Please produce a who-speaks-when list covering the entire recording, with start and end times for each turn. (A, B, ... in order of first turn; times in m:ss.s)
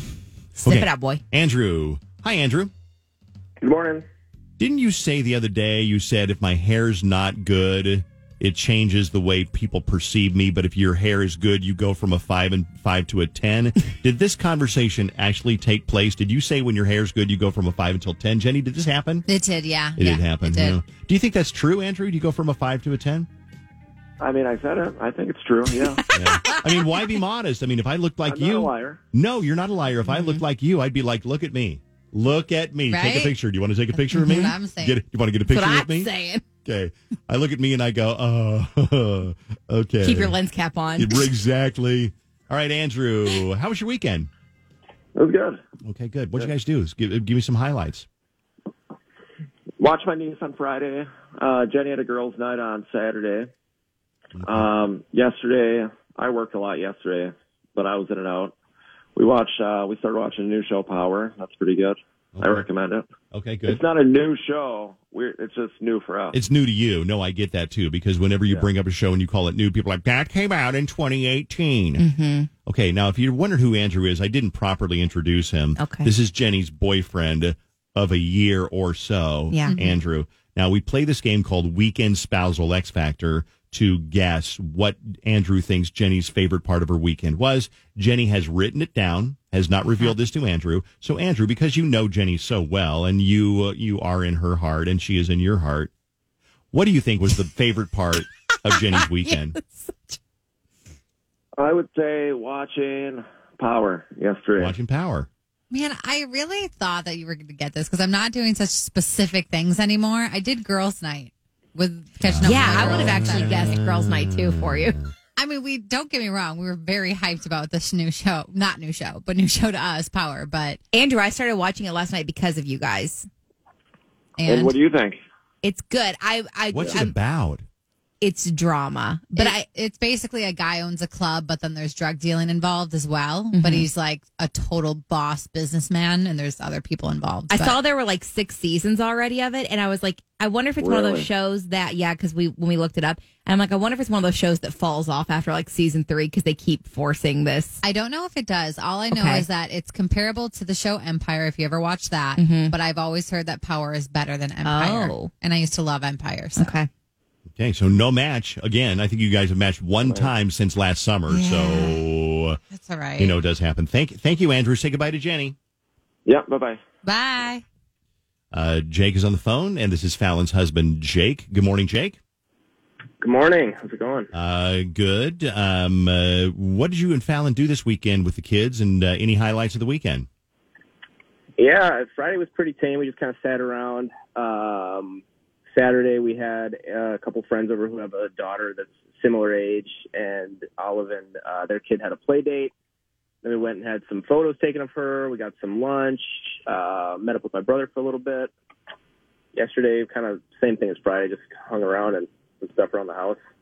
0:00.6-0:01.2 A
0:00.6-0:02.7 B
0:03.6-0:04.0 C
0:04.6-0:19.2 B
0:19.3-0:20.8 D
0:20.0-0:23.3 B
0:24.2-0:26.0 C
0:26.1-0:36.1 B
0:28.2-0:29.0 C
0:30.0-0:30.4 A
0:32.9-0:33.3 D
0:34.1-0:34.5 A
0:34.3-0:35.0 D
0:35.5-0:36.4 A
0:36.6-0:40.4 B
0:40.0-0:41.3 A
0:41.0-0:44.3 B
0:45.1-0:45.6 C
0:45.8-0:48.0 B
0:49.8-0:53.5 C
0:54.4-0:54.6 B
0:54.4-0:58.5 C
0:59.2-1:03.1 C
1:02.4-1:02.6 B
1:03.3-1:03.8 B
1:03.7-1:06.4 C
1:06.3-1:12.0 B
1:12.0-1:12.5 A
1:12.6-1:35.9 B
1:15.8-1:16.1 A
1:19.5-1:19.8 A
1:36.7-1:39.6 B
1:38.9-1:40.2 A
1:41.6-1:44.8 C
1:44.6-1:45.3 B
1:45.7-1:53.7 D
1:52.2-1:55.0 B
1:52.4-1:55.0 A
1:55.4-2:00.8 D
2:00.9-2:03.3 A
2:04.4-2:04.8 D
2:04.4-2:05.2 C
2:05.6-2:07.1 A
2:06.7-2:07.6 B
2:08.2-2:09.6 A
2:09.4-2:17.8 D
2:13.5-2:13.9 A
2:17.5-2:27.8 A
2:20.8-2:21.3 C
2:27.8-2:36.8 D
2:29.1-2:29.4 A
2:32.4-2:32.7 A
2:34.6-2:35.3 A
2:36.6-2:36.9 A
2:37.6-2:42.6 B
2:40.0-2:40.3 C
2:41.3-2:42.0 D
2:42.7-2:43.4 D
2:43.2-2:45.6 B
2:46.2-2:46.8 C
2:47.0-2:47.6 D
2:48.5-2:52.2 B
2:53.2-2:54.3 C
2:54.3-3:00.3 B
3:01.6-3:05.2 E
3:01.7-3:02.1 C
3:03.2-3:03.6 C
3:04.1-3:04.4 C
3:05.7-3:12.7 E
3:07.2-3:07.6 C
3:13.4-3:18.5 E
3:19.6-3:23.4 E